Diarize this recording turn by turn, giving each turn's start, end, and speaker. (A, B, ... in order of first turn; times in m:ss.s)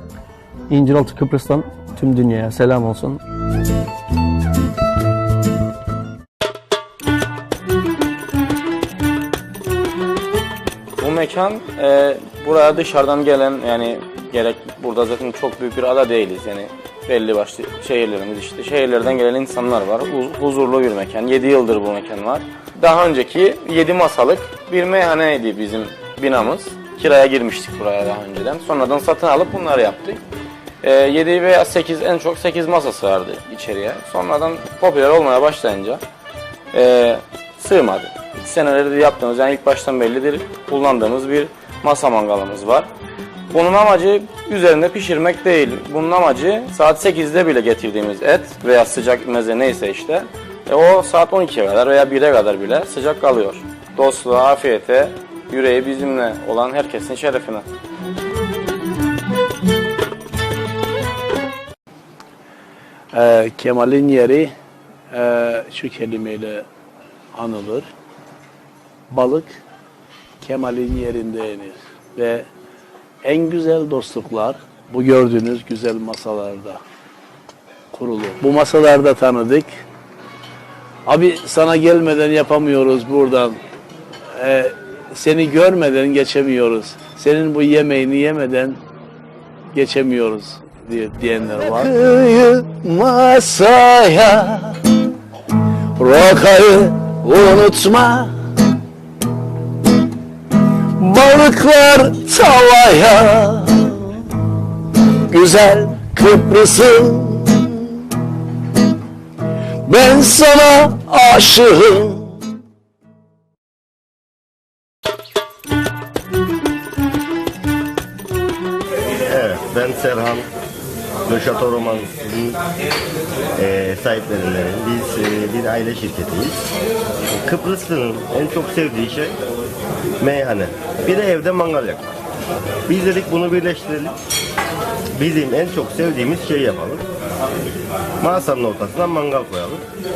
0:00.7-0:03.2 A
0:11.0-0:30.2 B
0:30.8-0:36.0 B
0:36.7-0:42.9 B
0:43.5-0:57.6 B
1:03.1-1:04.5 C
1:05.1-1:06.7 C
1:07.4-1:07.9 C
1:09.1-1:09.6 C
1:10.4-1:12.5 C
1:13.2-1:16.8 C
1:17.9-1:19.7 C
1:21.1-1:23.6 C
1:24.4-1:28.8 C
1:29.7-1:34.8 C
1:36.0-1:38.3 C
1:41.1-1:43.4 D
1:42.0-1:42.8 C
1:45.3-1:47.2 D
1:49.9-1:52.1 D
1:59.2-2:00.4 E
2:01.3-2:02.6 E
2:03.6-2:06.6 E
2:07.4-2:09.4 E
2:10.2-2:12.0 E
2:12.9-2:14.1 E
2:15.2-2:17.0 E
2:18.2-2:19.8 E